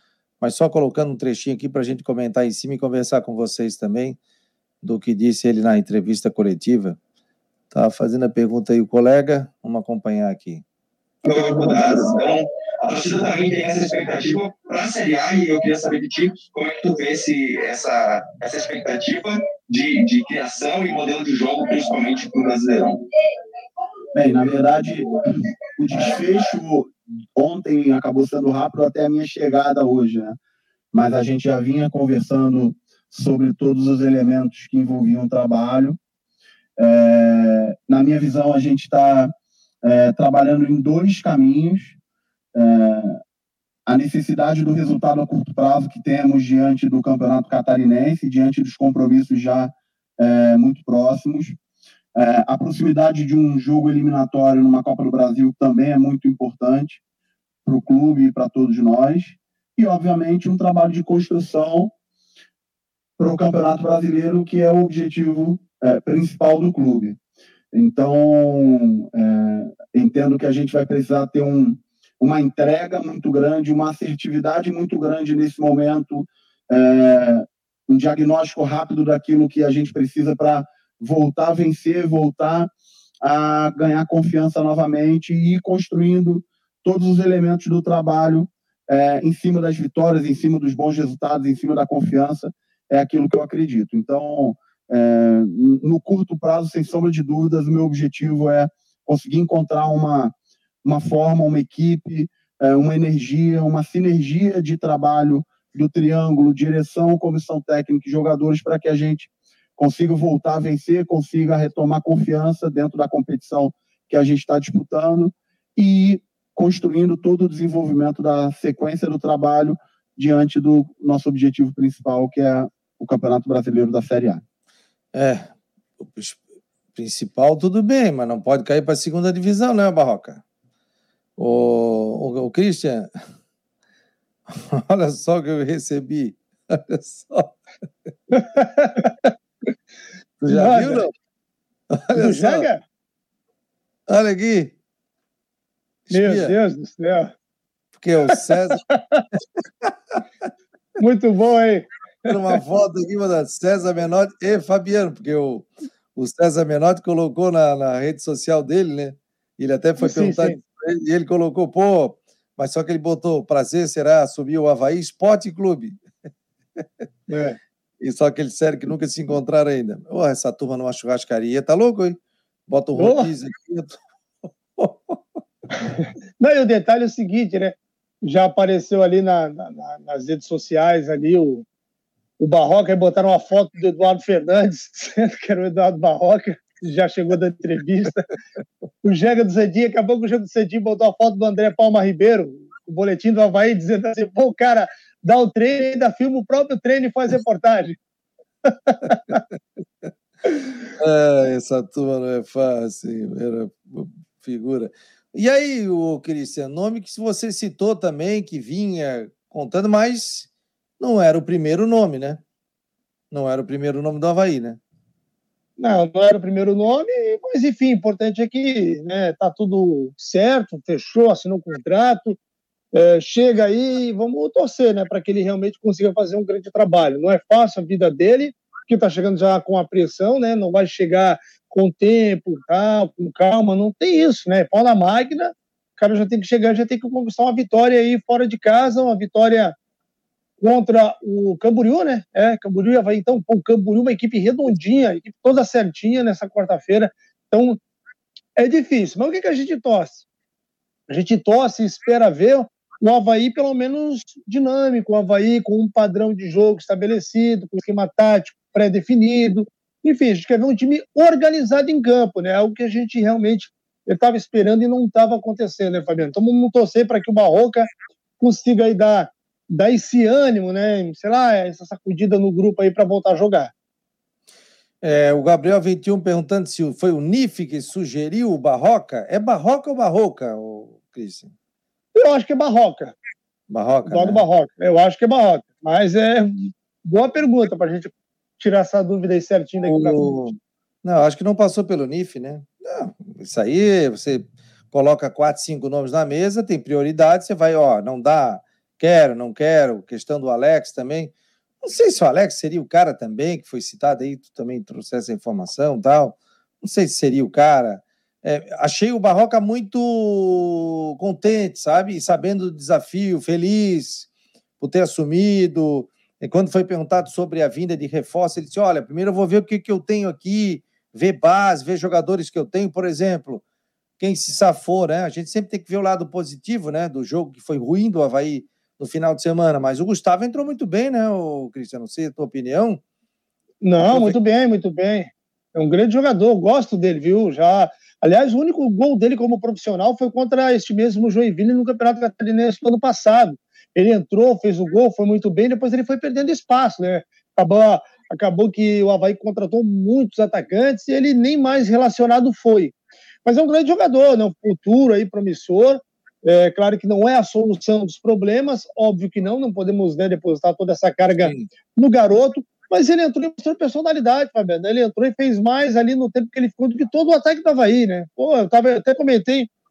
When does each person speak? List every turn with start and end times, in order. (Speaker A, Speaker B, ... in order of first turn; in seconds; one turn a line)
Speaker A: 0.4-4.2
Speaker A: 4.8-7.0
Speaker A: 7.7-10.6
Speaker B: 11.2-23.0
Speaker C: 24.1-30.4
Speaker C: 30.9-36.0
Speaker C: 36.8-39.3
Speaker C: 39.8-42.0
Speaker C: 42.5-43.2
Speaker C: 43.9-51.5
Speaker C: 52.1-57.0
Speaker C: 57.6-61.9
Speaker C: 63.2-67.2
Speaker C: 67.7-124.4
Speaker A: 125.1-125.5
Speaker A: 126.0-126.4
Speaker A: 126.9-130.4
Speaker A: 131.4-133.1
Speaker A: 134.5-137.5
Speaker D: 138.3-139.3
Speaker A: 140.4-141.1
Speaker D: 140.5-141.0
Speaker A: 141.9-142.7
Speaker D: 142.1-142.8
Speaker A: 144.1-144.7
Speaker A: 146.1-146.5
Speaker D: 146.1-147.3
Speaker A: 148.0-148.8
Speaker D: 148.7-149.2
Speaker A: 149.8-150.2
Speaker D: 151.0-152.4
Speaker A: 152.3-166.0
Speaker D: 160.0-160.6
Speaker D: 167.3-167.6
Speaker A: 168.0-172.2
Speaker A: 172.7-175.4
Speaker D: 172.9-173.3
Speaker D: 175.8-181.6
Speaker D: 182.4-188.3
Speaker D: 189.0-197.9
Speaker D: 198.6-199.4
Speaker A: 201.0-210.5
Speaker A: 211.0-212.4
Speaker A: 213.3-214.8
Speaker D: 215.8-222.4
Speaker D: 222.9-239.7
Speaker D: 240.6-247.8
Speaker D: 248.6-250.2
Speaker D: 251.1-267.9
Speaker D: 268.4-273.7
Speaker A: 275.0-281.5
Speaker D: 282.1-283.1
Speaker A: 283.7-284.4
Speaker D: 284.1-290.4
Speaker A: 289.8-314.3
Speaker A: 314.8-323.6
Speaker A: 324.2-333.0
Speaker D: 333.8-352.9
Speaker A: 334.0-334.4
Speaker D: 353.4-369.7
Speaker A: 361.4-361.7